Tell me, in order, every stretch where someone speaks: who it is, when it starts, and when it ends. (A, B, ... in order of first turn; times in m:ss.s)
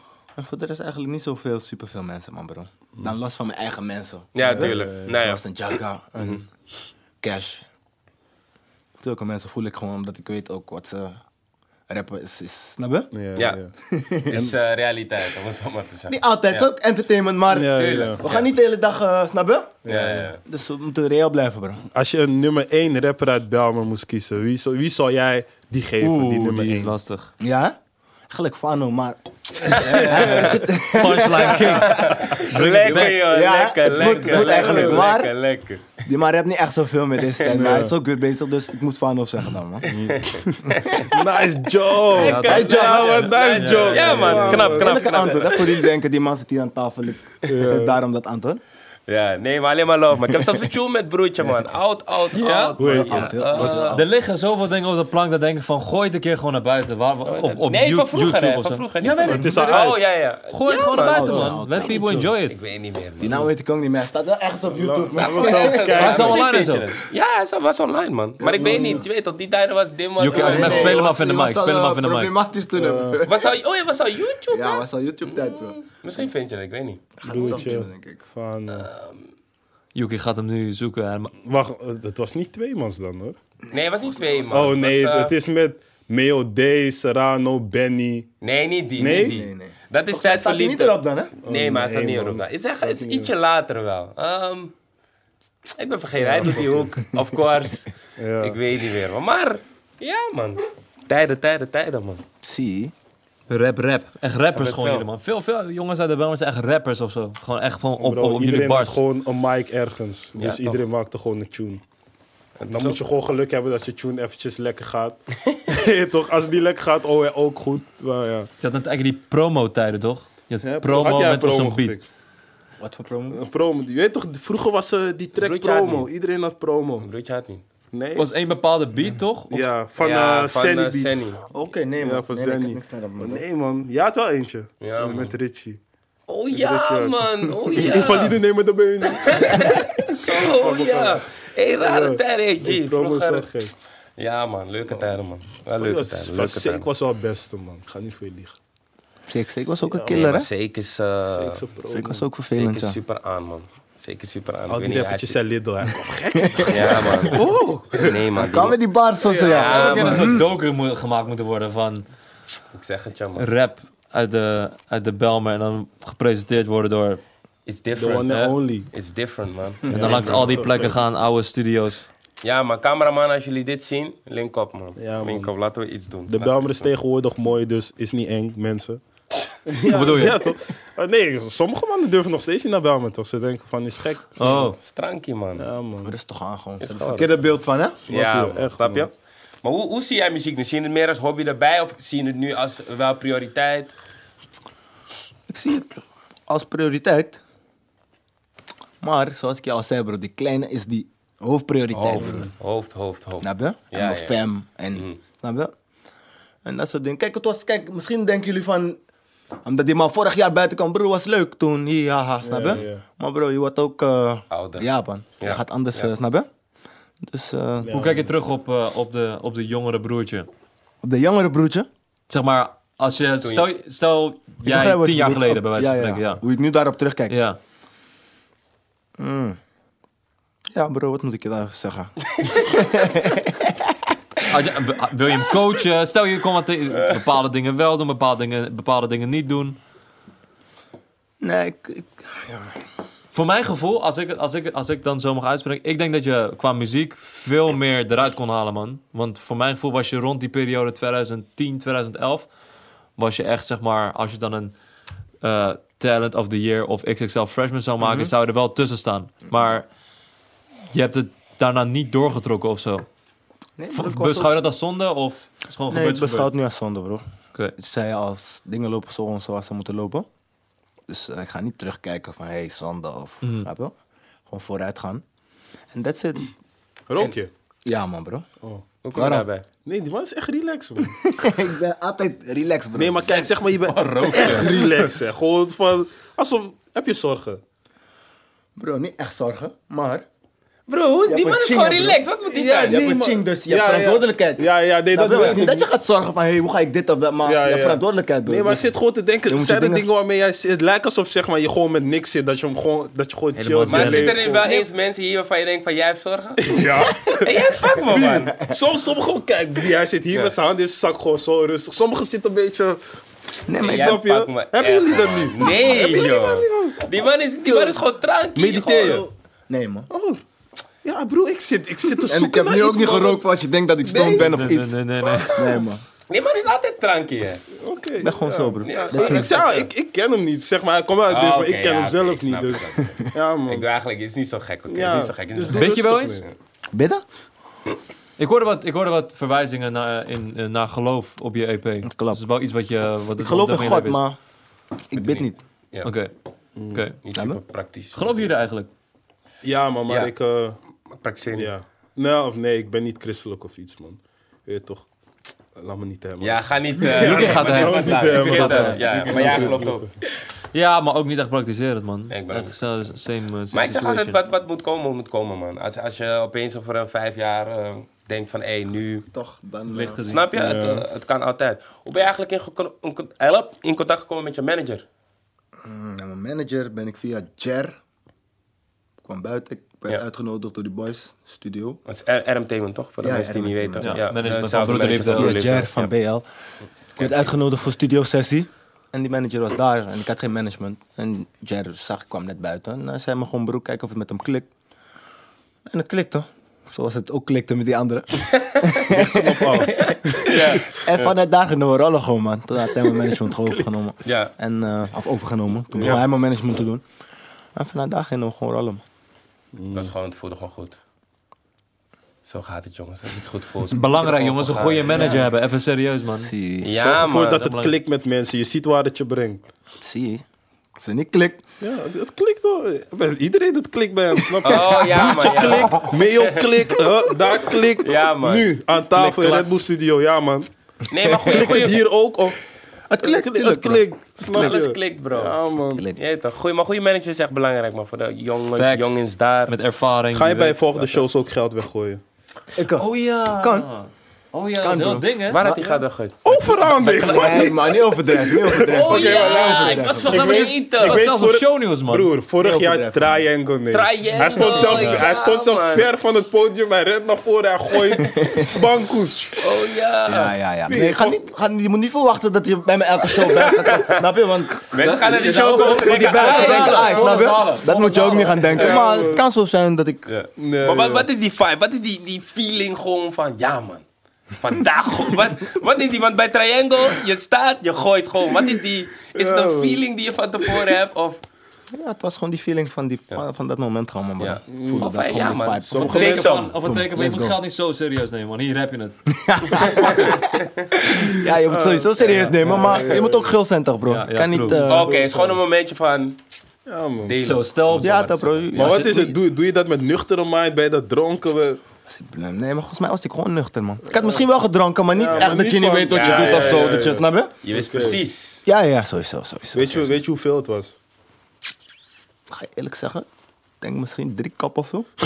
0:00.4-0:06.4 A
0:04.4-0:05.4 B
0:04.4-0:05.1 C
0:07.2-0:07.6 A
0:09.0-0:11.2 A
0:11.9-0:13.1 A
0:13.1-0:13.7 C
0:13.8-0:14.5 A
0:14.3-0:16.7 B
0:16.1-0:19.8 A
0:17.5-0:18.2 C
0:17.7-0:18.5 B
0:19.8-0:20.3 C
0:19.8-0:20.4 B
0:20.4-0:21.8 A
0:21.9-0:26.9 C
0:26.0-0:27.3 D
0:27.4-0:27.8 A
0:28.3-0:32.3 A
0:29.7-0:30.6 B
0:29.9-0:33.2 D
0:30.1-0:30.4 C
0:31.6-0:36.0 B
0:32.6-0:33.1 C
0:32.9-0:35.3 A
0:34.0-0:34.8 D
0:34.4-0:35.0 C
0:36.0-0:40.0 A
0:37.3-0:37.7 B
0:37.5-0:37.9 C
0:39.9-0:41.1 B
0:39.9-0:45.2 C
0:40.7-0:41.1 A
0:42.0-0:45.9 B
0:42.2-0:44.6 D
0:42.5-0:43.3 A
0:44.0-0:48.6 A
0:47.5-0:48.0 C
0:49.1-0:54.0 B
0:52.3-0:52.9 D
0:52.8-0:53.8 C
0:52.9-0:54.1 A
0:53.6-1:02.6 D
0:57.2-1:01.5 B
0:59.3-1:00.0 C
1:00.9-1:02.2 A
1:01.9-1:02.3 C
1:02.5-1:03.4 B
1:03.2-1:06.1 A
1:04.7-1:06.4 C
1:05.2-1:11.1 B
1:06.0-1:06.9 D
1:08.4-1:09.0 A
1:08.6-1:09.0 C
1:10.2-1:12.3 D
1:10.3-1:13.6 A
1:12.8-1:13.2 C
1:13.2-1:17.6 B
1:14.5-1:15.8 A
1:17.2-1:18.2 A
1:17.2-1:18.9 C
1:18.7-1:19.2 B
1:20.0-1:21.3 D
1:21.4-1:23.4 C
1:23.7-1:25.4 B
1:24.2-1:24.5 A
1:24.5-1:28.3 C
1:28.4-1:34.7 B
1:29.0-1:29.4 C
1:29.2-1:31.3 A
1:31.4-1:33.3 C
1:35.8-1:42.2 B
1:36.2-1:36.9 C
1:38.2-1:38.6 C
1:42.4-1:42.9 A
1:43.5-1:49.0 D
1:44.6-1:45.1 B
1:48.0-1:51.8 C
1:50.4-1:50.8 B
1:52.6-1:53.0 B
1:52.7-1:58.5 C
1:58.6-2:02.0 D
2:00.6-2:02.1 C
2:02.8-2:03.4 A
2:03.3-2:07.1 C
2:05.4-2:06.1 B
2:07.0-2:07.6 B
2:07.9-2:08.3 C
2:08.2-2:09.7 D
2:09.5-2:11.2 C
2:10.0-2:11.4 B
2:11.5-2:13.4 A
2:12.0-2:15.8 C
2:14.8-2:15.3 B
2:16.3-2:18.4 B
2:16.5-2:21.2 C
2:19.0-2:23.5 B
2:21.8-2:23.7 C
2:24.2-2:26.9 B
2:25.8-2:28.6 C
2:29.3-2:30.5 A
2:29.9-2:30.2 C
2:30.1-2:31.6 B
2:31.3-2:32.3 C
2:31.9-2:33.0 A
2:32.5-2:35.4 B
2:34.7-2:38.1 C
2:36.4-2:37.4 A
2:36.7-2:38.8 B
2:38.0-2:40.5 A
2:39.2-2:40.4 C
2:39.4-2:40.5 B
2:39.6-2:42.1 D
2:42.7-2:43.5 B
2:43.4-2:47.2 D
2:47.7-2:50.9 B
2:48.0-2:48.9 C
2:48.3-2:48.6 D
2:49.9-2:51.0 C
2:49.9-2:52.1 D
2:52.4-2:56.9 B
2:55.0-2:55.5 C
2:56.3-2:59.0 C
2:59.7-3:04.6 C
2:59.9-3:00.4 D
3:04.4-3:04.8 D
3:04.5-3:05.7 B
3:05.6-3:06.1 C
3:06.0-3:08.0 A
3:06.8-3:07.3 B
3:08.1-3:09.1 C
3:08.1-3:09.1 B
3:09.6-3:13.9 B
3:15.5-3:17.4 A
3:19.0-3:22.5 A
3:22.0-3:24.4 B
3:22.1-3:22.5 C
3:23.4-3:25.7 A
3:26.6-3:29.0 A
3:29.6-3:36.5 A
3:32.4-3:33.0 C
3:34.5-3:34.9 B
3:35.4-3:36.1 B
3:37.2-3:37.9 A
3:37.8-3:38.3 C
3:37.9-3:40.5 D
3:41.0-3:41.9 A
3:42.3-3:46.4 D
3:44.6-3:47.4 A
3:47.3-3:47.6 D
3:49.2-3:49.6 A
3:50.7-3:54.0 A
3:54.5-3:59.8 D
4:01.4-4:02.8 A
4:03.3-4:12.5 D
4:13.2-4:14.7 D
4:15.4-4:19.9 D
4:18.0-4:18.3 A
4:20.9-4:23.0 D
4:23.8-4:24.6 A
4:23.9-4:26.5 D
4:25.9-4:27.2 A
4:27.8-4:30.3 A
4:31.1-4:33.9 A
4:33.4-4:33.7 D
4:34.5-4:35.2 A
4:35.9-4:36.5 A
4:37.1-4:37.5 C
4:37.8-4:38.5 A
4:39.0-4:39.6 B
4:39.1-4:39.5 A
4:39.8-4:41.2 C
4:41.0-4:43.5 A
4:43.0-4:47.6 C
4:43.8-4:44.9 D
4:44.5-4:44.9 A
4:48.8-4:50.2 A
4:50.9-4:53.0 B
4:51.3-4:52.2 A
4:52.5-4:55.8 C
4:52.9-4:58.9 A
4:55.2-4:55.8 B
4:57.4-5:04.7 C
4:59.5-5:00.1 A
5:03.6-5:04.4 D
5:03.9-5:08.5 B
5:04.5-5:04.9 A
5:06.6-5:07.5 C
5:08.1-5:08.8 A
5:08.1-5:13.0 C
5:10.3-5:10.6 B
5:13.7-5:14.2 A
5:13.8-5:19.3 B
5:13.8-5:18.0 C
5:15.6-5:16.2 A
5:18.6-5:19.3 C
5:19.7-5:20.1 A
5:20.1-5:20.4 C
5:21.0-5:23.4 C
5:22.2-5:26.0 A
5:24.0-5:24.6 C
5:24.4-5:25.8 D
5:26.3-5:27.6 B
5:27.8-5:33.8 C
5:28.2-5:29.8 A
5:28.8-5:29.9 B
5:31.3-5:36.5 B
5:34.9-5:36.4 C
5:35.7-5:36.4 D
5:36.9-5:37.2 A
5:38.4-5:44.2 D
5:42.0-5:42.4 A
5:43.4-5:44.4 A
5:45.1-5:45.6 A
5:45.2-5:46.1 B
5:46.0-5:46.3 D
5:46.8-5:47.0 C
5:46.9-5:47.2 D
5:47.2-5:48.5 B
5:47.3-5:47.6 A
5:48.1-5:48.9 D
5:49.6-5:50.8 C
5:50.1-5:50.3 B
5:51.1-5:51.7 B
5:51.6-5:55.1 C
5:55.8-6:00.1 C
5:56.4-6:00.1 B
5:57.0-5:59.7 D
5:59.0-5:59.9 A
6:00.7-6:04.4 D
6:02.3-6:03.1 B
6:03.7-6:09.3 B
6:09.3-6:10.2 A
6:09.9-6:10.8 D
6:10.3-6:15.0 B
6:10.5-6:11.1 C
6:15.8-6:18.0 A
6:19.2-6:22.0 A
6:22.1-6:26.1 B
6:23.2-6:26.4 A
6:24.0-6:25.6 D
6:27.2-6:34.7 A
6:35.9-6:47.0 A
6:38.5-6:38.8 B
6:39.0-6:40.7 C
6:40.3-6:41.3 B
6:44.2-6:44.5 B
6:46.0-6:46.2 C
6:47.8-6:49.0 A
6:49.8-6:50.1 C
6:49.9-6:51.0 B
6:52.4-6:55.5 B
6:53.9-6:56.5 D
6:55.1-6:55.4 C
6:56.4-6:57.0 A
6:56.8-6:57.7 B
6:57.0-6:59.6 C
6:57.6-6:58.0 D
7:00.0-7:00.4 A
7:01.0-7:01.6 A
7:01.8-7:10.7 C
7:04.6-7:06.7 B
7:05.6-7:06.0 A
7:08.0-7:09.8 B
7:11.1-7:12.0 B
7:11.3-7:12.6 C
7:11.4-7:12.0 A
7:13.1-7:14.8 A
7:13.2-7:16.0 C
7:14.5-7:15.6 B
7:16.0-7:16.2 A
7:16.2-7:19.8 B
7:18.8-7:21.2 D
7:20.3-7:22.2 C
7:22.8-7:23.9 A
7:23.0-7:25.7 D
7:24.8-7:25.8 A
7:25.5-7:26.4 B
7:25.8-7:39.6 C
7:27.0-7:30.6 A
7:27.1-7:27.6 B
7:28.8-7:31.2 B
7:30.2-7:32.3 D
7:32.6-7:33.4 A
7:33.9-7:36.1 B
7:34.6-7:35.2 A
7:38.2-7:38.8 A
7:39.6-7:40.6 B
7:40.3-7:44.9 A
7:40.9-7:41.4 C
7:43.3-7:44.2 B
7:44.9-7:47.2 B
7:45.0-7:48.9 D
7:45.8-7:50.2 A
7:48.8-7:49.4 C
7:48.8-7:49.0 B
7:50.3-7:54.0 B
7:50.6-7:51.3 C
7:54.6-8:01.4 B
7:59.3-8:00.0 C
8:01.9-8:07.6 A
8:04.4-8:06.7 B
8:04.7-8:05.2 C
8:05.8-8:06.5 C
8:06.1-8:09.2 D
8:09.3-8:15.1 A
8:09.9-8:10.9 B
8:11.6-8:13.5 C
8:12.6-8:12.9 D
8:14.1-8:14.8 D
8:14.7-8:15.6 C
8:14.8-8:16.4 B
8:16.9-8:17.4 C
8:17.2-8:19.1 B
8:17.4-8:18.9 D
8:18.0-8:19.4 A
8:18.8-8:21.8 C
8:22.1-8:27.5 A
8:25.1-8:28.2 C
8:25.3-8:28.6 B
8:28.7-8:30.2 A
8:29.7-8:31.0 C
8:32.5-8:33.3 A
8:33.8-8:35.1 A